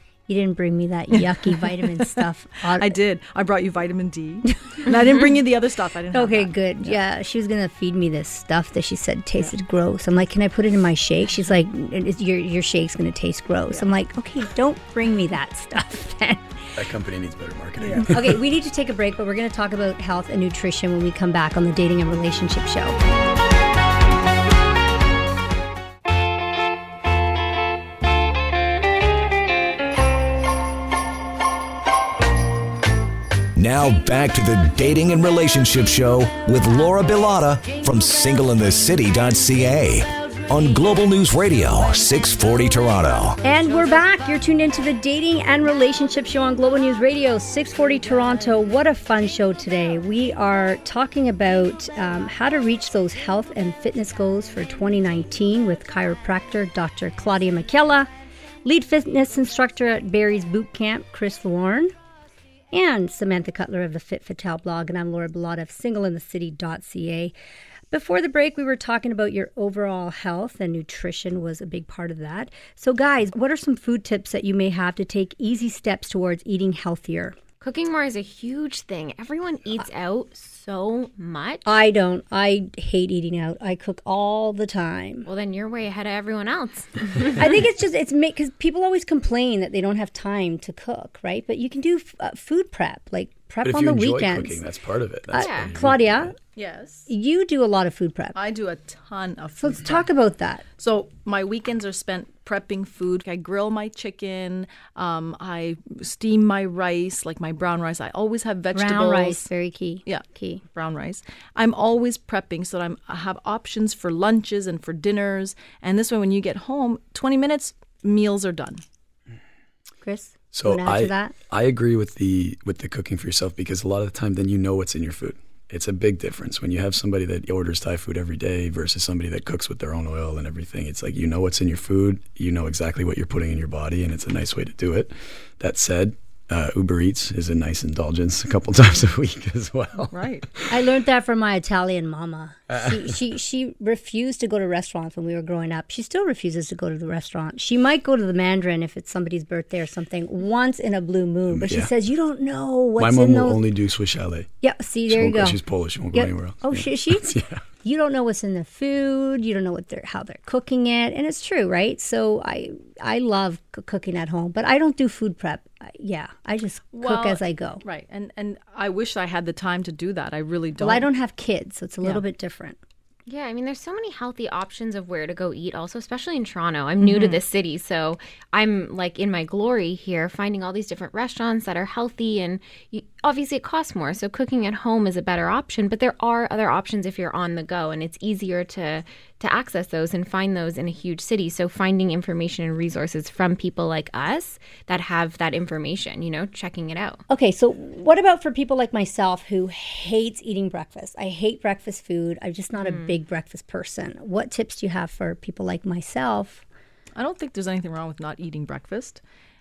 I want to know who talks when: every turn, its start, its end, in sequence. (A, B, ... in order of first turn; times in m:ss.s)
0:00.3-0:03.0 A
0:01.2-0:07.0 B
0:06.1-0:16.6 A
0:16.8-0:18.4 C
0:17.8-0:18.1 B
0:18.1-0:23.0 A
0:33.6-0:43.4 D
0:43.4-0:58.1 A
0:58.6-1:01.9 A
1:02.7-1:07.3 A
1:07.9-1:17.4 A
1:17.6-1:21.8 E
1:21.6-1:25.3 A
1:25.2-1:27.5 E
1:27.4-1:34.6 A
1:33.6-1:36.4 C
1:35.3-1:36.4 A
1:35.4-1:35.7 E
1:36.6-1:37.1 B
1:37.1-1:38.4 A
1:38.4-1:40.0 B
1:39.6-1:40.7 A
1:40.8-1:49.5 B
1:48.7-1:50.6 A
1:50.1-1:58.8 B
2:00.0-2:01.3 A
2:00.5-2:20.6 C
2:20.1-2:20.5 B
2:20.7-2:33.6 A
2:22.7-2:23.1 C
2:31.5-2:31.9 C
2:33.0-2:34.5 C
2:34.6-2:35.6 A
2:35.1-2:37.6 C
2:36.1-2:47.8 A
2:47.0-2:51.1 B
2:50.8-2:52.8 A
2:53.3-3:17.2 E
2:57.0-2:57.4 B
3:17.3-3:26.6 A
3:22.8-3:23.1 E
3:27.2-3:29.2 B